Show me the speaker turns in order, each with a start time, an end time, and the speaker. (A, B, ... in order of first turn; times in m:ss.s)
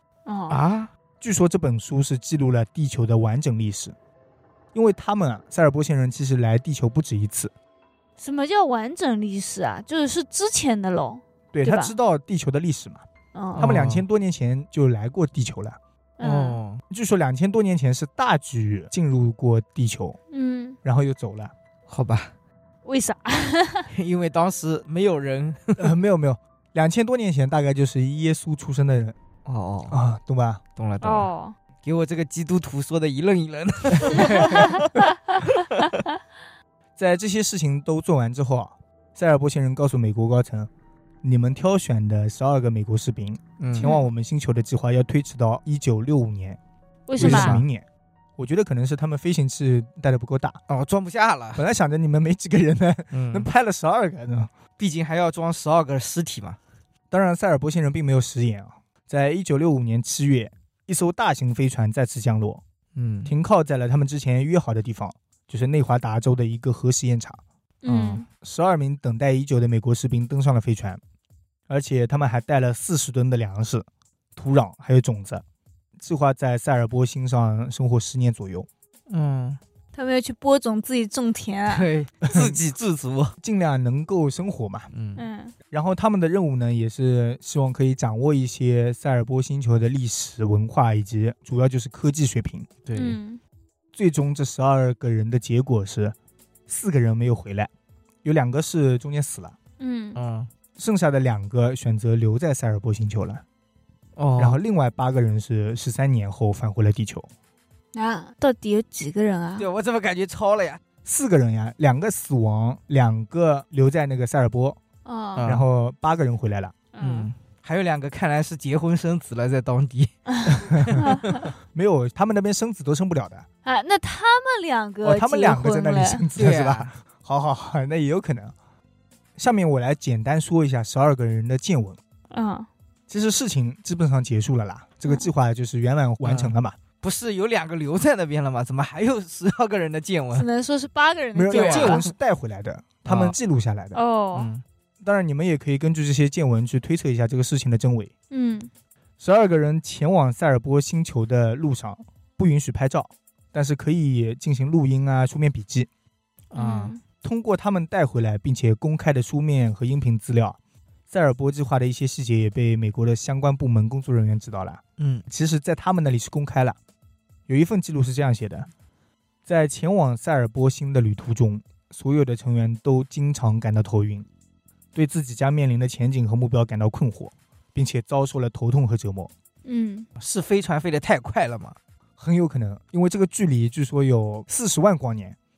0:00.2-0:00.6 A
0:00.5-0:00.9 B
0:01.2-0:03.9 C
0:04.7-0:07.5 C
0:08.2-0:12.0 A
0:11.5-0:13.0 C
0:13.3-0:13.7 A
0:13.6-0:14.0 B
0:13.6-0:15.8 C
0:16.2-0:16.6 A
0:16.2-0:16.8 B
0:16.9-0:20.2 C
0:20.3-0:20.8 A
0:20.8-0:21.5 C
0:21.9-0:22.3 B
0:22.8-0:23.9 A
0:23.9-0:25.9 B
0:25.8-0:29.2 C
0:29.4-0:30.0 B
0:29.9-0:30.6 C
0:30.8-0:31.3 B
0:31.0-0:31.5 A
0:31.8-0:36.0 B
0:34.1-0:34.8 A
0:37.0-0:40.7 C
0:41.2-0:46.6 C
0:43.6-0:43.9 B
0:43.8-0:44.0 A
0:47.1-0:47.6 A
0:47.2-0:47.8 C
0:47.2-0:47.6 B
0:48.4-0:50.6 C
0:50.7-0:51.6 B
0:51.6-0:54.5 C
0:53.1-0:53.5 B
0:54.8-0:56.6 B
0:57.1-1:02.6 C
1:02.9-1:03.3 B
1:03.2-1:07.4 C
1:07.8-1:08.2 A
1:07.8-1:08.2 B
1:08.4-1:11.0 C
1:11.7-1:13.8 C
1:14.4-1:15.4 C
1:16.0-1:18.7 C
1:19.1-1:19.6 B
1:19.9-1:21.9 A
1:21.7-1:23.4 B
1:22.2-1:22.6 C
1:23.4-1:24.9 C
1:24.9-1:25.2 B
1:25.2-1:25.5 A
1:25.7-1:32.7 C
1:32.8-1:33.2 B
1:32.9-1:33.4 A
1:33.9-1:36.1 C
1:36.7-1:37.7 C
1:38.2-1:39.6 C
1:39.8-1:40.2 A
1:40.1-1:40.5 B
1:40.8-1:43.4 C
1:44.2-1:44.6 B
1:44.4-1:47.3 C
1:47.9-1:49.7 A
1:49.6-1:50.8 B
1:51.0-1:54.8 C
1:55.0-1:55.5 A
1:55.4-1:55.6 B
1:55.4-1:56.8 C
1:56.9-1:57.3 A
1:57.0-2:01.5 B
2:00.3-2:01.5 A
2:00.4-2:01.0 C
2:01.7-2:03.4 C
2:03.6-2:06.2 A
2:05.0-2:08.5 C
2:06.3-2:06.9 B
2:09.4-2:12.0 C
2:12.3-2:12.7 A
2:13.1-2:16.8 C
2:16.2-2:20.4 B
2:20.3-2:22.1 A
2:21.3-2:24.0 C
2:21.5-2:22.1 B
2:23.0-2:23.4 B
2:23.9-2:24.5 A
2:24.3-2:24.6 B
2:25.0-2:28.1 C
2:28.3-2:28.7 A
2:29.2-2:35.9 C
2:36.5-2:36.9 B
2:36.5-2:37.0 A
2:37.2-2:40.6 C
2:41.1-2:46.8 C
2:45.0-2:45.2 B
2:47.5-2:48.7 C
2:49.4-2:54.3 C
2:54.9-2:59.3 C
2:59.6-3:00.1 A
3:00.2-3:01.8 B
3:02.2-3:05.4 C